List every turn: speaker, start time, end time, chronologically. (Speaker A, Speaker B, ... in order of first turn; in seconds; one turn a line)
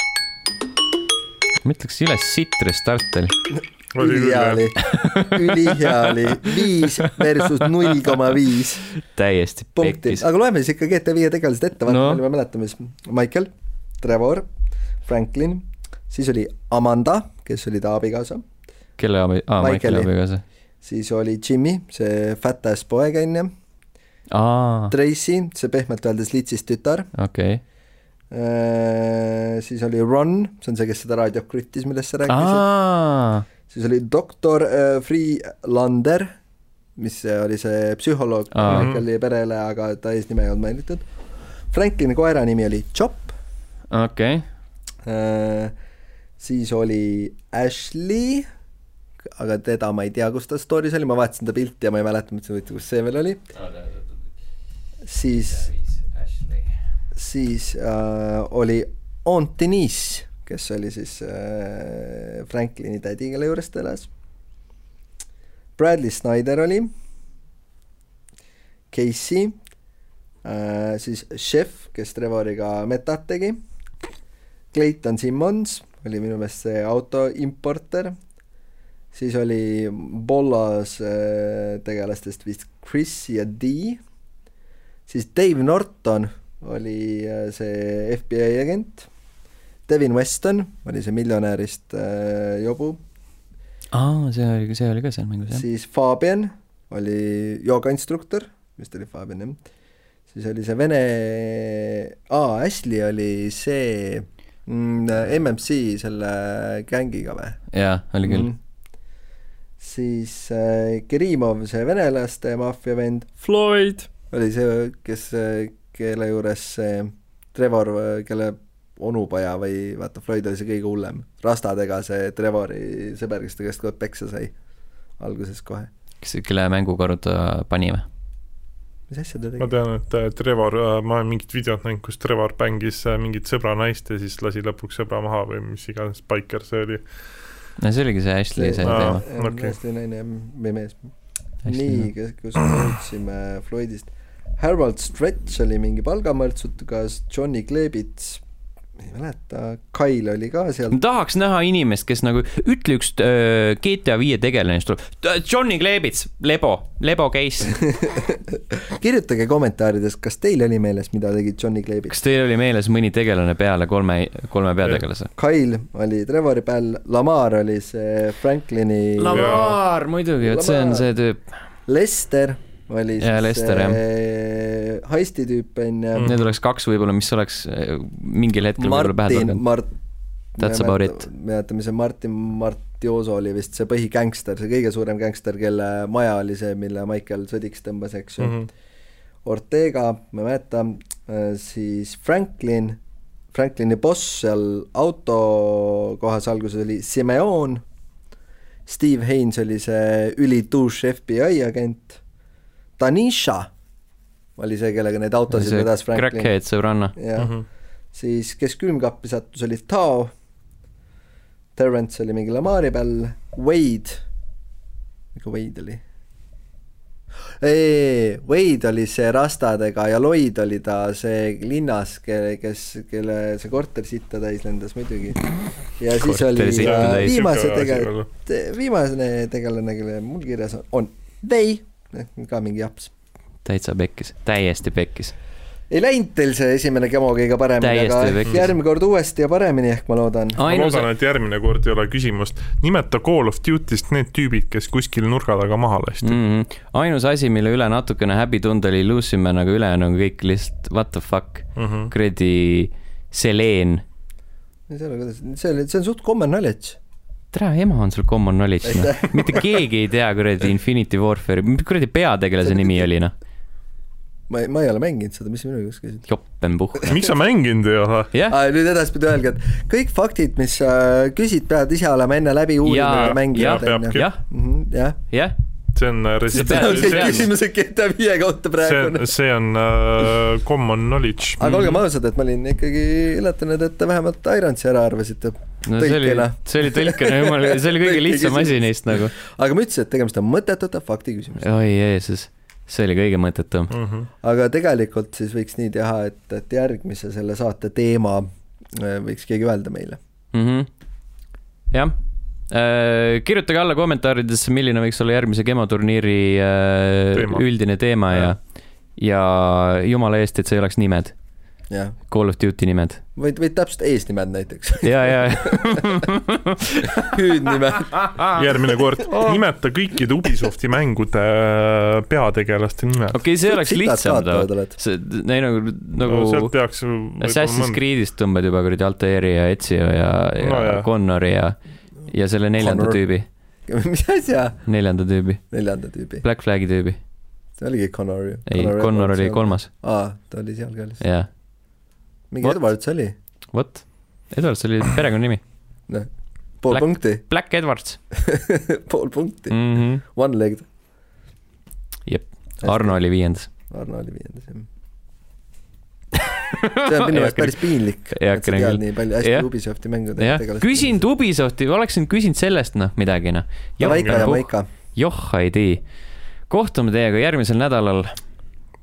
Speaker A: 1.6-3.4
Speaker B: 3.9-4.8
Speaker C: 4.0-8.8
Speaker A: 4.8-7.2
Speaker A: 9.0-10.2
Speaker C: 9.8-14.5
Speaker A: 11.9-12.2
Speaker C: 15.1-18.4
Speaker A: 19.0-20.4
Speaker C: 19.6-20.1
Speaker C: 20.8-23.5
Speaker A: 24.3-24.9
Speaker C: 24.9-27.1
Speaker A: 27.1-27.6
Speaker C: 28.3-32.7
Speaker A: 32.3-33.5
Speaker C: 33.7-36.3
Speaker C: 37.0-41.1
Speaker A: 38.5-38.9
Speaker B: 38.7-39.0
Speaker C: 41.7-43.3
Speaker A: 43.9-44.5
Speaker C: 45.0-45.7
Speaker C: 46.4-48.5
Speaker C: 49.2-53.4
Speaker C: 55.0-55.7
Speaker A: 55.7-56.6
Speaker C: 57.1-64.1
Speaker C: 65.8-66.9
Speaker C: 68.9-69.6
Speaker C: 70.4-73.6
Speaker C: 74.7-78.2
Speaker C: 79.1-84.0
Speaker C: 85.1-89.1
Speaker C: 89.9-93.0
Speaker A: 93.9-95.6
Speaker C: 95.5-99.6
Speaker C: 100.3-107.6
Speaker A: 107.7-108.5
Speaker C: 108.2-108.6
Speaker C: 109.8-124.5
Speaker B: 113.5-114.0
Speaker C: 125.2-125.9
Speaker A: 126.2-128.1
Speaker C: 129.1-129.7
Speaker B: 129.6-137.3
Speaker A: 137.8-139.2
Speaker C: 138.6-148.4
Speaker B: 138.8-139.7
Speaker A: 141.6-142.1
Speaker C: 149.0-151.0
Speaker A: 150.9-157.8
Speaker C: 157.8-162.1
Speaker A: 162.1-165.3
Speaker C: 165.4-169.7
Speaker A: 169.2-171.5
Speaker B: 169.3-169.7
Speaker C: 170.4-171.1
Speaker C: 171.9-176.3
Speaker A: 173.2-174.0
Speaker B: 176.2-176.4
Speaker A: 176.2-179.6
Speaker C: 178.8-179.9
Speaker C: 180.6-188.6
Speaker A: 180.6-181.3
Speaker B: 188.4-188.7
Speaker C: 189.4-193.0
Speaker C: 193.5-197.8
Speaker C: 198.9-202.2
Speaker C: 203.0-203.7
Speaker C: 204.6-206.5
Speaker A: 205.5-207.2
Speaker C: 207.2-207.6
Speaker B: 207.4-207.7
Speaker C: 208.1-210.3
Speaker C: 211.8-214.2
Speaker C: 215.3-216.0
Speaker C: 217.6-233.1
Speaker A: 226.2-227.4
Speaker B: 226.8-228.3
Speaker A: 233.7-235.3
Speaker C: 235.9-240.6
Speaker A: 237.8-238.8
Speaker A: 240.6-241.1
Speaker B: 240.6-246.4
Speaker A: 246.2-254.0
Speaker B: 251.8-252.1
Speaker C: 254.9-257.0
Speaker A: 257.5-263.3
Speaker C: 258.8-259.7
Speaker C: 262.6-263.1
Speaker C: 264.5-266.3
Speaker A: 266.3-267.1
Speaker C: 267.0-267.3
Speaker B: 267.1-268.3
Speaker A: 268.3-268.6
Speaker C: 268.5-275.2
Speaker A: 272.9-274.4
Speaker B: 273.2-274.3
Speaker A: 275.3-275.6
Speaker B: 275.9-277.5
Speaker A: 276.5-277.5
Speaker C: 276.5-279.3
Speaker B: 278.8-281.6
Speaker C: 281.6-291.7
Speaker A: 281.6-282.0
Speaker A: 285.9-289.3
Speaker A: 291.6-293.9
Speaker B: 293.9-294.3
Speaker C: 294.4-300.2
Speaker A: 300.5-300.9
Speaker A: 301.9-302.2
Speaker A: 302.7-308.6
Speaker B: 307.3-307.6
Speaker A: 309.1-311.4
Speaker C: 311.9-312.2
Speaker A: 312.3-313.2
Speaker C: 313.4-316.3
Speaker A: 315.0-318.6
Speaker C: 317.2-318.5
Speaker B: 318.5-323.4
Speaker A: 323.3-326.8
Speaker C: 323.6-325.0
Speaker B: 326.2-328.0
Speaker A: 327.4-333.5
Speaker B: 330.6-331.1
Speaker C: 332.8-333.2
Speaker C: 333.9-334.9
Speaker A: 334.9-335.7
Speaker C: 335.7-336.4
Speaker A: 336.4-337.2
Speaker C: 337.8-341.2
Speaker A: 338.7-339.9
Speaker A: 341.2-341.5
Speaker C: 342.5-343.3
Speaker A: 343.7-345.6
Speaker C: 346.8-347.4
Speaker A: 346.9-348.2
Speaker C: 348.3-350.9
Speaker A: 349.7-350.2
Speaker A: 352.3-353.7
Speaker C: 352.8-353.2
Speaker C: 353.9-354.9
Speaker A: 356.4-359.7
Speaker C: 357.0-361.2
Speaker A: 360.4-366.1
Speaker C: 364.0-364.9
Speaker B: 364.0-364.5
Speaker A: 366.7-368.4